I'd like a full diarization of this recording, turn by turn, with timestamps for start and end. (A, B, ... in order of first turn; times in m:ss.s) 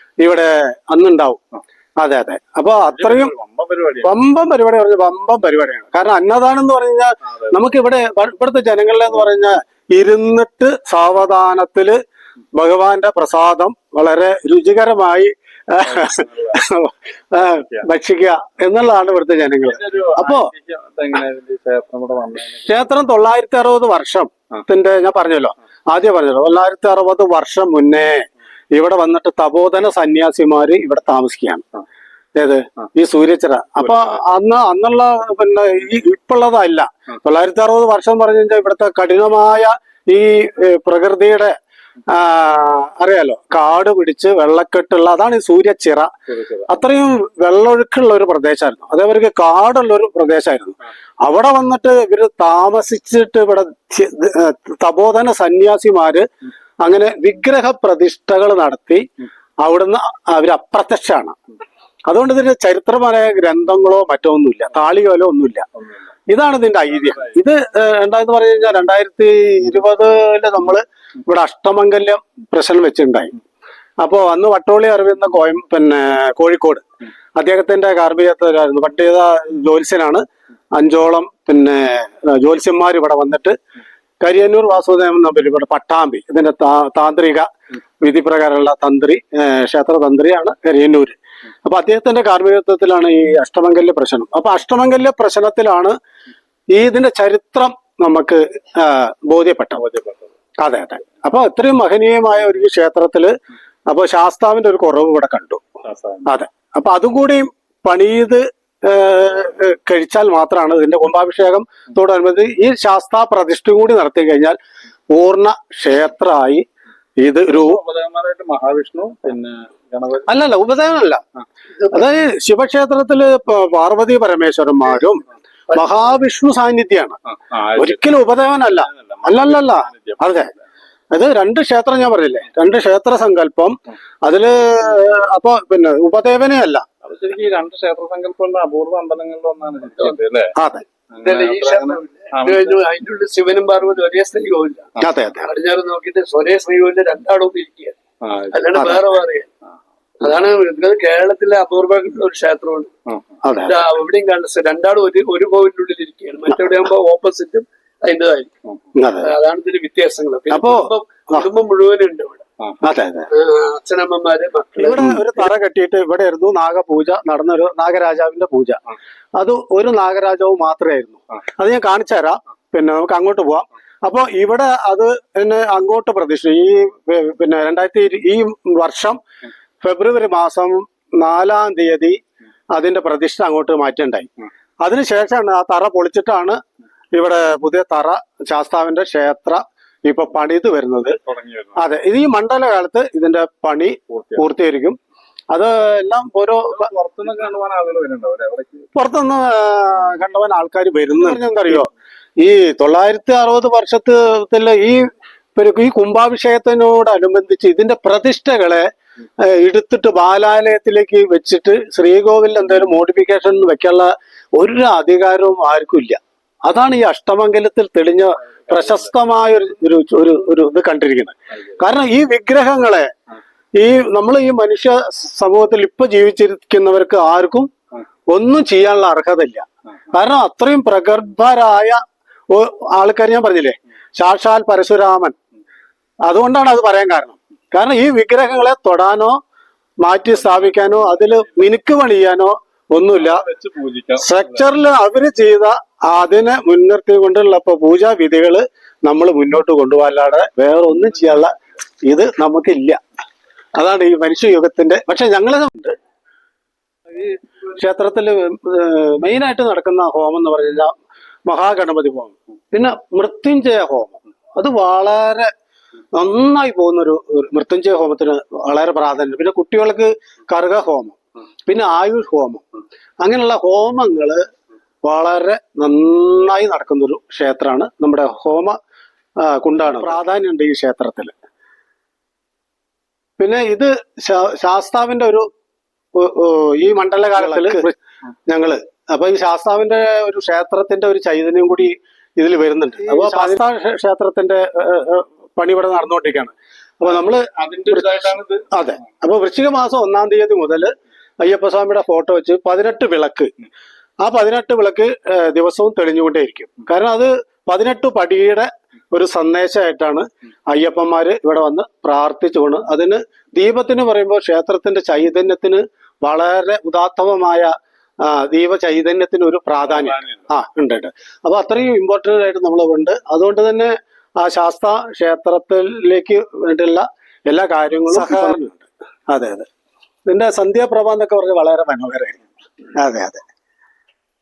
0:00.2-0:01.4 A
0:02.0-0:03.3 A
0:02.9-0:04.2 B
0:04.0-0:12.0 A
0:12.5-0:20.5 A
0:16.0-0:16.3 B
0:19.6-0:22.7 B
0:22.5-0:31.6 A
0:32.4-0:41.6 A
0:42.1-0:46.1 A
0:46.3-0:46.6 B
0:46.7-0:56.3 A
0:56.8-0:59.1 A
0:59.6-1:01.3 A
1:02.1-1:05.6 A
1:06.3-1:13.3 A
1:14.0-1:16.8 A
1:17.4-1:23.6 A
1:24.2-1:27.5 A
1:28.0-1:36.0 A
1:36.7-1:39.8 A
1:39.8-1:40.3 B
1:40.6-1:43.3 A
1:43.9-1:45.6 A
1:45.8-1:46.2 B
1:46.2-1:54.6 A
1:55.1-1:56.6 A
1:57.2-1:57.8 A
1:57.5-2:00.3 B
2:00.3-2:01.2 A
2:01.9-2:07.2 A
2:07.3-2:08.1 B
2:07.8-2:10.5 A
2:08.9-2:10.2 B
2:11.1-2:16.8 A
2:17.0-2:20.5 B
2:20.5-2:20.8 A
2:21.1-2:22.8 B
2:21.2-2:24.9 C
2:25.0-2:25.5 A
2:25.4-2:28.0 C
2:28.2-2:28.6 B
2:28.5-2:29.5 C
2:28.7-2:29.0 A
2:30.2-2:32.9 C
2:33.4-2:33.7 A
2:33.6-2:38.5 C
2:39.0-2:39.3 A
2:39.2-2:42.4 C
2:40.5-2:41.4 A
2:42.8-2:43.3 A
2:43.3-2:45.4 C
2:44.8-2:48.8 A
2:49.4-2:59.2 A
2:59.8-3:02.2 A
3:02.7-3:04.3 A
3:04.8-3:06.6 A
3:07.1-3:11.2 A
3:11.0-3:11.8 B
3:11.8-3:15.0 A
3:15.5-3:16.9 A
3:16.7-3:18.9 B
3:18.9-3:28.9 A
3:29.4-3:43.1 A
3:43.7-3:47.7 A
3:48.3-3:52.0 A
3:52.5-3:55.4 A
3:56.2-3:59.4 A
4:00.0-4:03.4 A
4:00.5-4:00.9 B
4:03.1-4:04.7 B
4:04.2-4:11.5 A
4:12.0-4:13.0 A
4:13.7-4:16.0 A
4:17.1-4:20.9 A
4:21.4-4:25.5 A
4:26.1-4:32.6 A
4:33.2-4:34.4 A
4:35.0-4:38.8 A
4:39.4-4:41.3 A
4:43.4-4:45.5 A
4:46.1-4:47.9 A
4:48.5-4:58.1 A
4:53.1-4:53.6 C
4:57.1-4:58.6 B
4:58.7-5:03.5 A
5:04.2-5:29.7 A
5:19.8-5:20.4 B
5:30.3-5:32.4 A
5:33.0-5:33.4 A